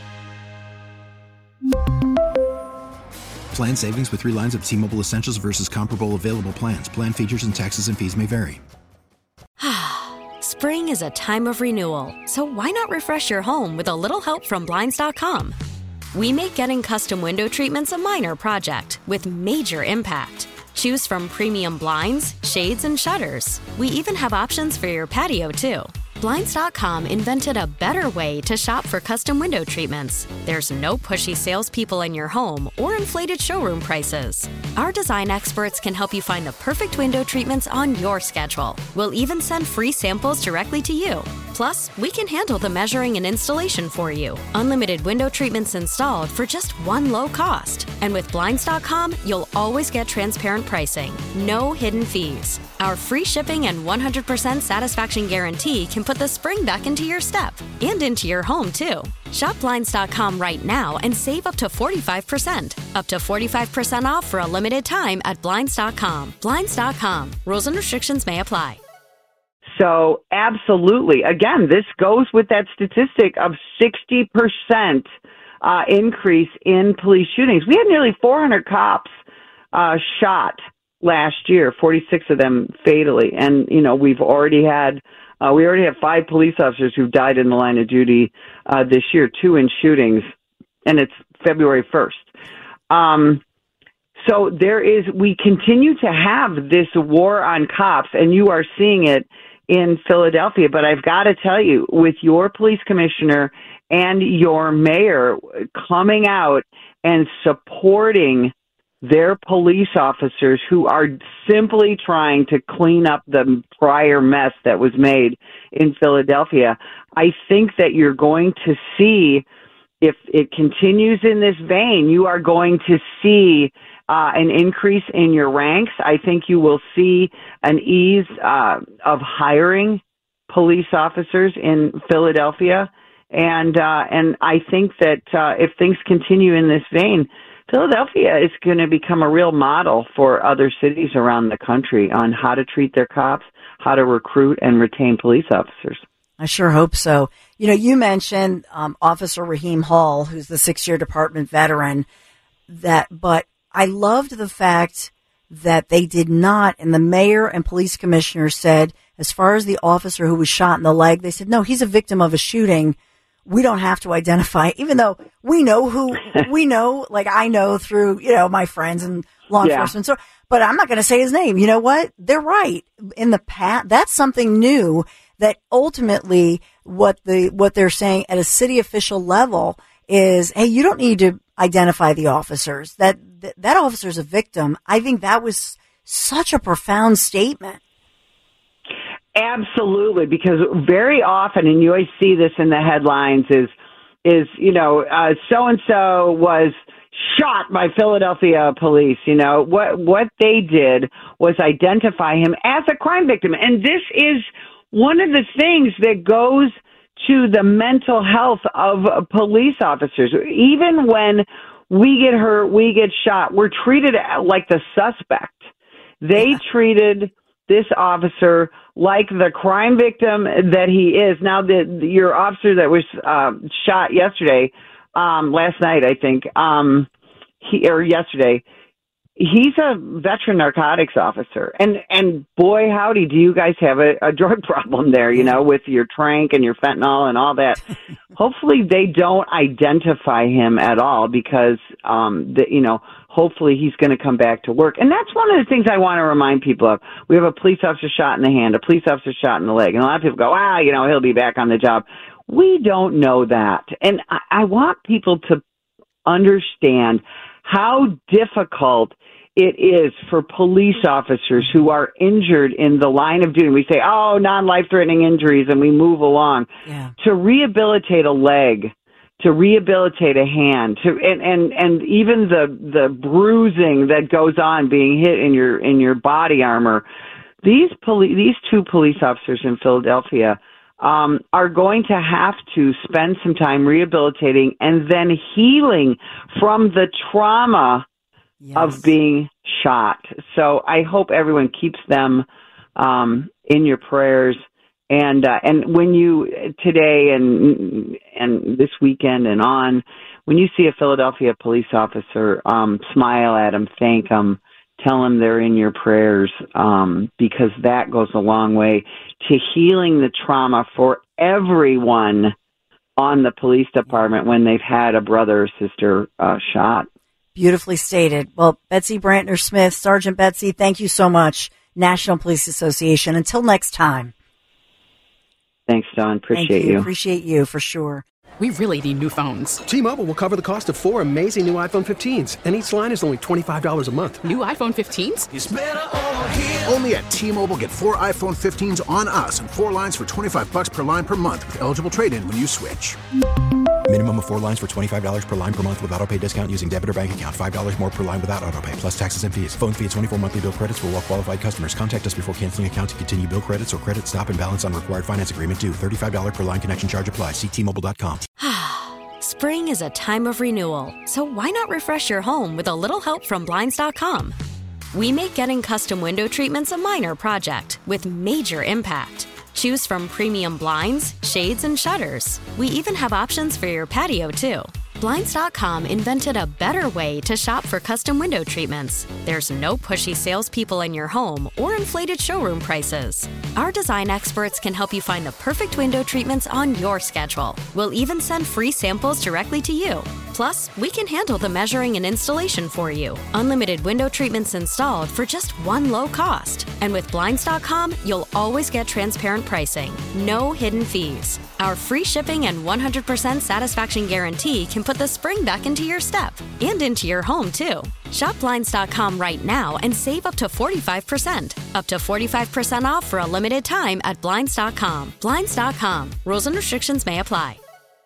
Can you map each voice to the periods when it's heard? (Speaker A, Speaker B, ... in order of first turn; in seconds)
Speaker A: 3.5-8.6, 344.1-358.5
Speaker B: 9.6-15.6, 16.1-68.8, 358.6-364.6, 365.1-417.8
Speaker C: 69.7-75.0, 75.6-79.1, 79.7-90.2, 90.8-92.3, 92.9-93.4, 94.2-119.4, 120.0-146.0, 169.6-169.9, 189.3-193.7, 194.2-215.7, 216.2-227.1, 227.6-228.6, 229.4-237.8, 238.3-255.6, 256.3-266.7, 267.2-277.1, 277.6-288.0, 288.8-294.6, 295.1-312.5, 313.2-317.1, 325.9-327.1
Speaker D: 146.4-152.1, 152.7-187.8, 261.6-261.9, 266.9-267.1, 288.6-289.1, 317.5-324.3, 326.5-328.2
Speaker E: 328.6-329.8, 334.4-335.5
Speaker F: 329.8-334.4
Speaker G: 335.5-343.2